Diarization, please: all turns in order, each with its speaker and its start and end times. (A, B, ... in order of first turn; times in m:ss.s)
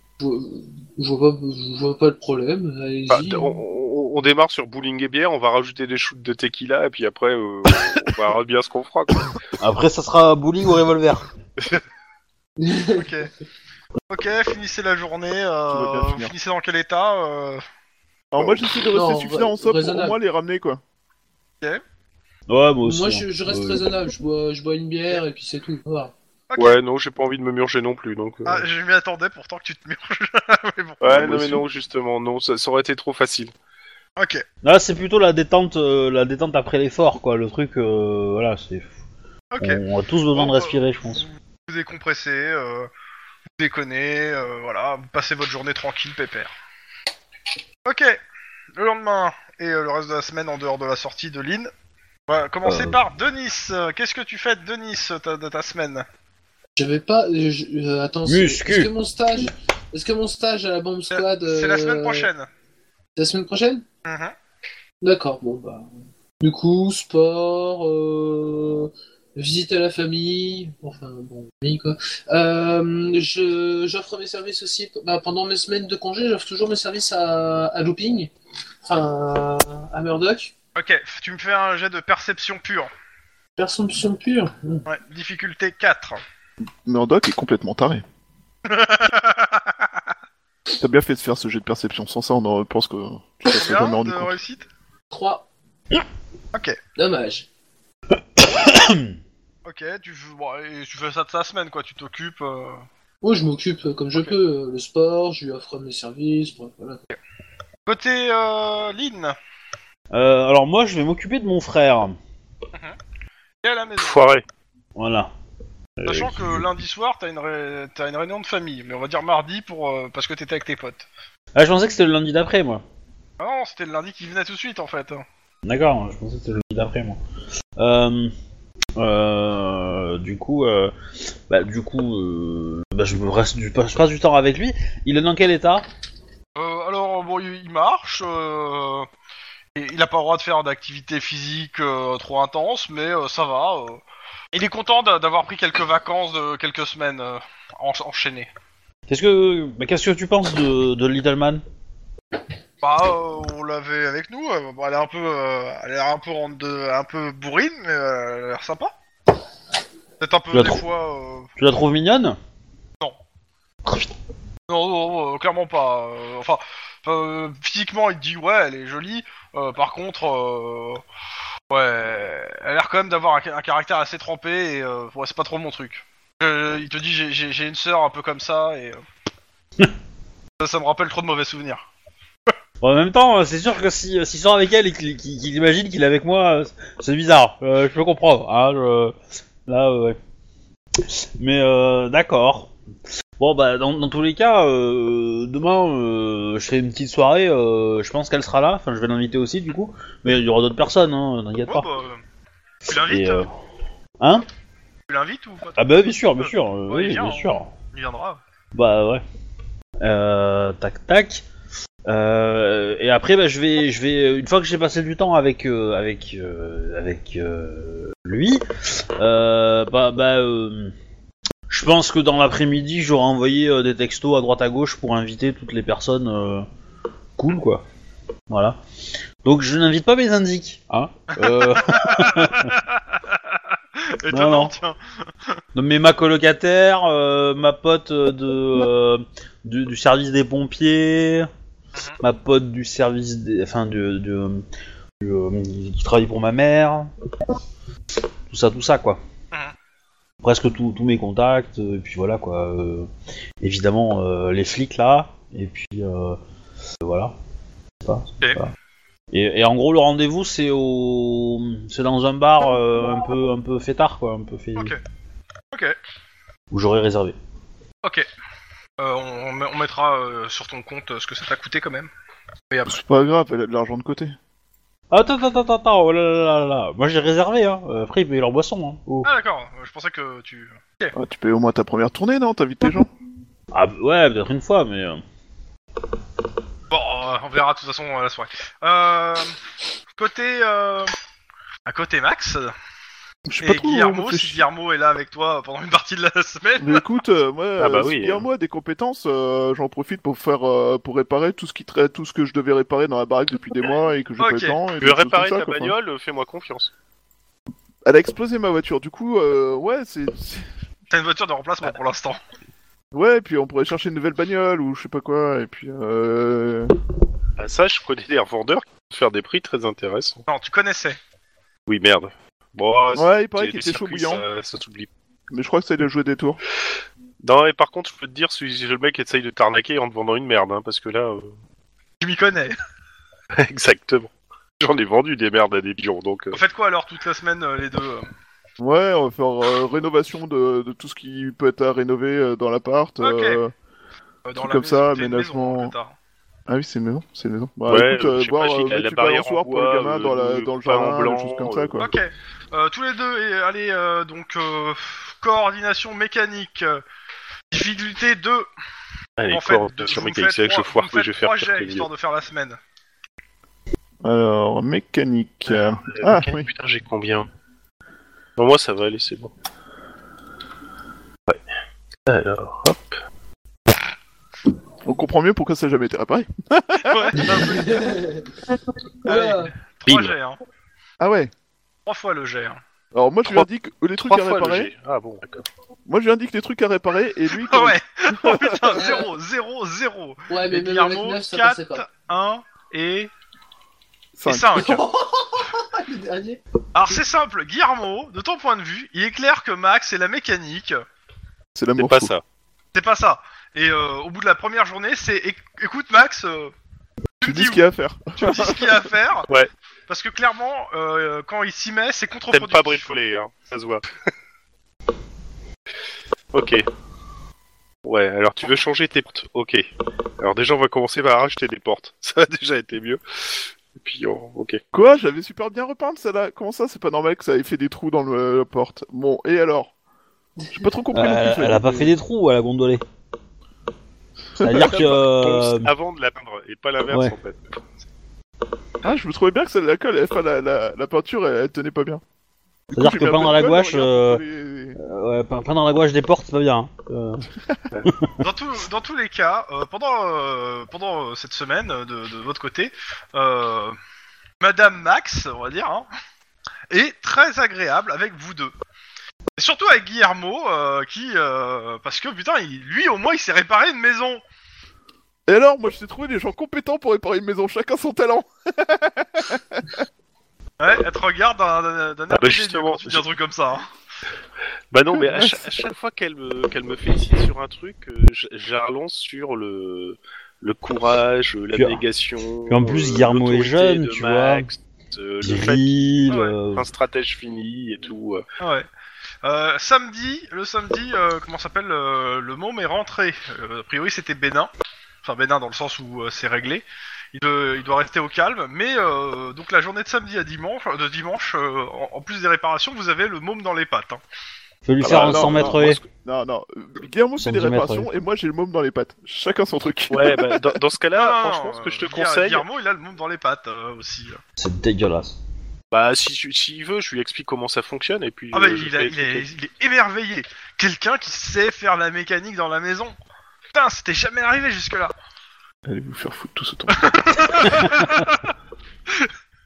0:00.2-0:03.6 A
0:03.1-0:09.3 B
0:09.6-0:11.3 C
0:11.6-0:11.8 B
0:12.6-0:13.2 A
0:12.9-0:13.3 D
0:14.1-0:17.6 D
0:15.7-0:16.3 E
0:18.3-0:20.8 E
0:18.9-0:20.2 A
0:22.5-0:23.8 C
0:22.8-0:26.1 A
0:26.5-0:26.8 D
0:26.6-0:28.7 B
0:28.5-0:31.6 D
0:31.0-0:33.5 B
0:34.2-0:34.4 D
0:34.6-0:38.9 C
0:39.5-0:39.8 D
0:39.6-0:41.2 C
0:40.3-0:42.9 D
0:43.6-0:46.6 D
0:47.8-0:48.2 D
0:48.8-0:51.7 D
0:52.3-0:56.0 D
0:52.6-0:53.0 C
0:56.8-1:02.3 A
0:58.2-0:58.9 C
1:01.1-1:02.5 D
1:03.2-1:03.8 A
1:04.1-1:04.3 D
1:05.0-1:05.9 A
1:06.4-1:18.3 A
1:18.8-1:20.5 A
1:20.8-1:22.9 D
1:23.6-1:24.8 A
1:24.9-1:26.2 D
1:26.8-1:28.0 E
1:28.6-1:30.0 D
1:30.7-1:34.4 E
1:33.5-1:34.7 D
1:35.1-1:35.5 A
1:37.0-1:37.5 A
1:38.4-1:39.2 C
1:39.6-1:42.8 D
1:43.2-1:47.0 A
1:47.9-1:49.4 D
1:50.1-1:52.2 C
1:53.6-1:54.2 D
1:54.0-1:54.4 B
1:55.0-1:55.3 C
1:56.0-1:56.7 C
1:56.1-2:01.1 D
2:01.6-2:02.8 C
2:03.4-2:05.2 D
2:05.6-2:07.2 C
2:07.8-2:08.3 C
2:09.0-2:10.9 C
2:11.5-2:15.9 C
2:16.6-2:19.1 D
2:19.8-2:28.5 D
2:29.1-2:31.6 C
2:32.8-2:38.9 D
2:40.2-2:41.5 D
2:40.5-2:40.8 C
2:41.6-2:42.4 C
2:44.7-2:51.0 D
2:51.7-2:59.0 D
3:00.6-3:01.9 D
3:02.8-3:10.2 C
3:11.0-3:12.7 C
3:13.4-3:21.9 C
3:21.7-3:22.2 D
3:22.9-3:23.4 D
3:22.9-3:23.5 C
3:24.2-3:24.4 C
3:25.1-3:28.4 D
3:25.8-3:27.7 C
3:28.8-3:29.2 C
3:30.0-3:31.4 C
3:32.1-3:40.9 C
3:41.7-3:46.7 C
3:47.4-3:47.8 C
3:48.5-3:48.8 C
3:49.4-3:52.8 C
3:51.4-3:53.2 D
3:54.0-3:55.0 D
3:54.3-3:54.7 C
3:55.8-4:01.5 C
4:02.2-4:04.6 C
4:05.2-4:07.1 C
4:08.5-4:09.2 C
4:10.4-4:13.1 C
4:13.6-4:16.4 C
4:17.0-4:17.3 C
4:18.0-4:18.7 C
4:19.3-4:24.9 C
4:26.7-4:27.4 C
4:29.0-4:32.1 D
4:32.7-4:33.0 D
4:32.9-4:34.4 E
4:35.1-4:39.3 C
4:39.2-4:41.2 D
4:41.1-4:43.1 E
4:43.7-4:45.2 C
4:46.9-4:49.6 D
4:50.2-4:51.1 D
4:51.9-4:52.7 D
4:53.5-4:54.6 E
4:53.6-4:57.0 D
4:56.8-5:06.0 E
4:57.8-4:58.4 B
5:04.4-5:04.8 D
5:05.0-5:06.9 B
5:08.0-5:10.7 E
5:11.1-5:12.4 D
5:13.1-5:16.9 E
5:17.6-5:20.4 B
5:20.5-5:21.2 D
5:21.9-5:25.1 B
5:23.1-5:24.4 E
5:25.5-5:26.6 E
5:27.4-5:31.5 B
5:32.2-5:32.8 D
5:33.5-5:36.6 B
5:36.5-5:38.3 D
5:38.8-5:43.7 E
5:43.2-5:43.6 D
5:44.4-5:46.2 D
5:44.6-5:45.9 E
5:46.7-5:52.1 E
5:47.9-5:52.0 B
5:52.0-5:57.0 D
5:57.7-5:58.7 D
5:59.4-6:02.1 B
5:59.5-6:02.8 D
6:04.2-6:06.7 E
6:05.7-6:07.5 B
6:08.6-6:09.5 B
6:12.3-6:13.2 B
6:15.0-6:17.6 E
6:17.0-6:18.2 D
6:17.5-6:18.5 A
6:19.2-6:19.7 A
6:19.3-6:20.6 D
6:20.1-6:20.3 B
6:21.2-6:21.5 E
6:22.1-6:22.8 D
6:23.1-6:24.9 E
6:24.2-6:25.7 B
6:26.1-6:28.9 E
6:27.6-6:33.3 D
6:28.9-6:29.3 A
6:30.5-6:32.0 A
6:34.4-6:35.0 E
6:34.4-6:35.0 D
6:34.8-6:36.6 A
6:36.9-6:41.0 D
6:41.8-6:42.3 E
6:42.0-6:42.4 B
6:42.9-6:46.7 D
6:47.4-6:47.8 D
6:47.4-6:49.0 E
6:48.4-6:49.5 D
6:50.1-6:53.1 D
6:52.5-6:54.0 B
6:56.5-6:56.9 B
6:58.0-6:59.9 B
7:00.4-7:04.8 B
7:04.9-7:09.9 E
7:10.7-7:12.1 E
7:11.1-7:13.0 C
7:14.6-7:15.2 E
7:14.6-7:15.9 C
7:14.8-7:17.7 B
7:17.1-7:17.4 C
7:19.0-7:22.2 E
7:22.9-7:25.0 E
7:23.0-7:24.4 C
7:25.0-7:27.5 C
7:28.0-7:28.3 C
7:28.4-7:34.0 D
7:34.6-7:36.1 D
7:36.9-7:38.7 D
7:39.6-7:44.4 D
7:45.5-7:50.0 E
7:50.8-7:53.9 D
7:52.3-7:53.2 B
7:54.9-8:05.9 B
7:55.1-7:55.6 E
8:01.7-8:02.0 C
8:02.7-8:04.7 C
8:05.4-8:06.9 C
8:06.3-8:06.6 D
8:06.7-8:08.4 B
8:08.6-8:08.9 D
8:09.4-8:14.7 D
8:15.2-8:24.2 D
8:24.8-8:26.0 C
8:25.0-8:30.8 E
8:27.4-8:28.1 C
8:30.1-8:32.6 B
8:31.2-8:34.4 D
8:34.6-8:35.4 C
8:35.9-8:39.5 B
8:38.5-8:43.2 D
8:43.7-8:45.1 D
8:45.9-8:47.2 E
8:46.9-8:48.5 D